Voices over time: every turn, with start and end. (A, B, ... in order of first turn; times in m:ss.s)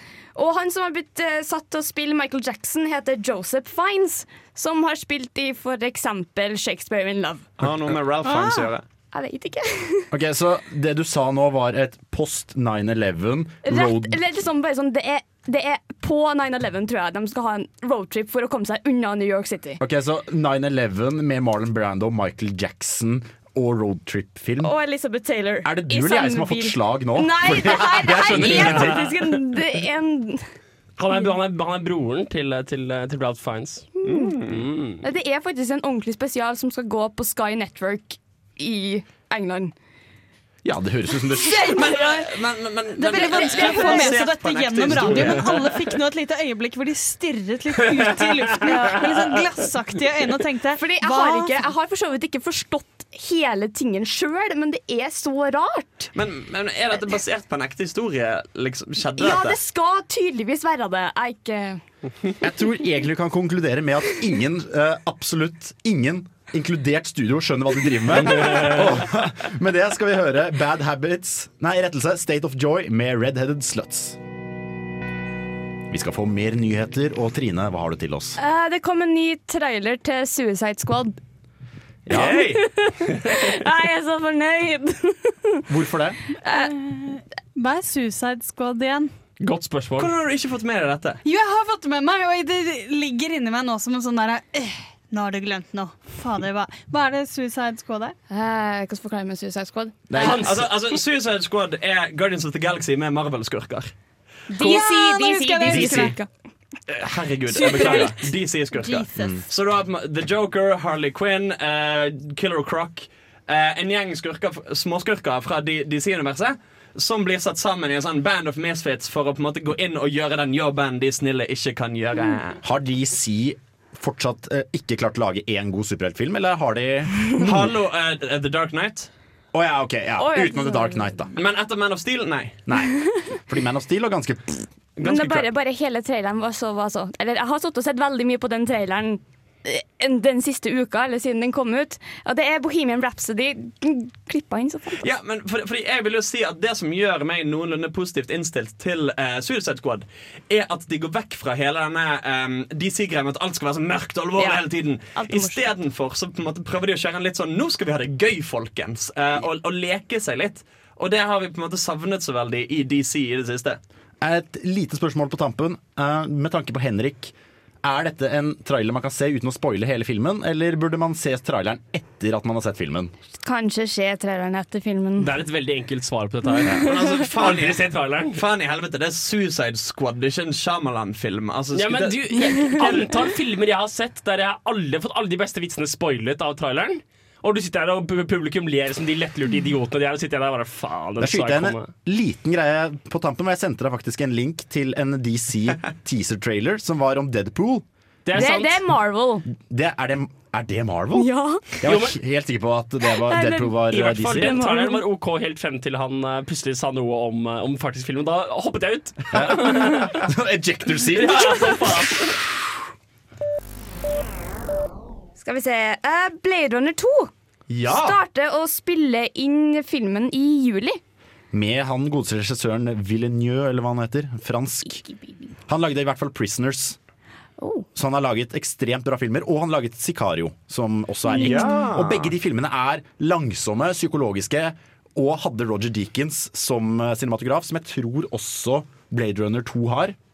0:00.4-0:07.5 A
0:07.6-0:08.8 B
0:09.1-0:10.1 A
0:10.1-0:14.2 C
0:13.6-0:19.8 A
0:19.8-0:24.7 C
0:24.6-0:30.5 A
0:25.6-0:29.1 C
0:28.3-0:29.3 D
0:31.0-0:33.9 D
0:34.0-0:34.6 B
0:34.5-0:35.0 D
0:35.0-0:39.7 A
0:40.6-0:41.8 C
0:41.4-0:42.4 E
0:41.7-0:45.5 B
0:43.0-0:51.5 E
0:43.0-0:44.2 A
0:47.9-0:49.2 D
0:50.8-0:56.1 A
0:56.1-0:59.6 B
0:59.2-1:01.8 A
1:02.4-1:14.2 C
1:15.9-1:18.4 C
1:18.4-1:21.2 A
1:22.1-1:22.4 C
1:22.1-1:22.6 B
1:22.1-1:25.6 A
1:25.7-1:26.2 C
1:26.4-1:26.7 A
1:26.5-1:29.1 E
1:29.4-1:30.1 D
1:30.0-1:31.2 B
1:31.2-1:38.2 E
1:38.3-1:40.4 A
1:40.1-1:40.7 C
1:40.2-1:43.9 B
1:44.5-1:46.3 A
1:44.6-1:46.2 E
1:45.6-1:46.2 C
1:46.9-2:02.6 B
1:47.5-1:49.4 E
1:49.2-1:49.4 C
2:02.6-2:07.7 C
2:07.4-2:09.1 B
2:09.5-2:11.3 C
2:10.2-2:11.1 A
2:11.4-2:12.6 B
2:12.7-2:14.7 C
2:15.0-2:15.5 B
2:15.0-2:25.1 A
2:25.0-2:43.8 B
2:34.4-2:35.7 A
2:44.2-2:53.1 C
2:53.4-2:55.3 A
2:55.2-2:58.4 D
2:56.8-3:03.1 B
3:01.7-3:11.9 D
3:11.2-3:17.8 C
3:18.3-3:18.8 D
3:18.3-3:19.5 A
3:19.5-3:21.3 C
3:21.2-3:21.6 A
3:21.8-3:24.6 C
3:21.8-3:22.2 D
3:23.2-3:25.0 A
3:23.9-3:30.2 D
3:29.3-3:32.7 C
3:31.1-3:32.4 D
3:35.4-3:37.3 A
3:37.7-3:38.2 C
3:37.9-3:41.0 A
3:41.5-3:45.0 C
3:45.0-3:45.5 A
3:45.7-3:47.0 C
3:47.6-3:47.9 A
3:48.0-4:00.2 C
3:51.3-3:51.9 A
3:51.3-3:52.3 B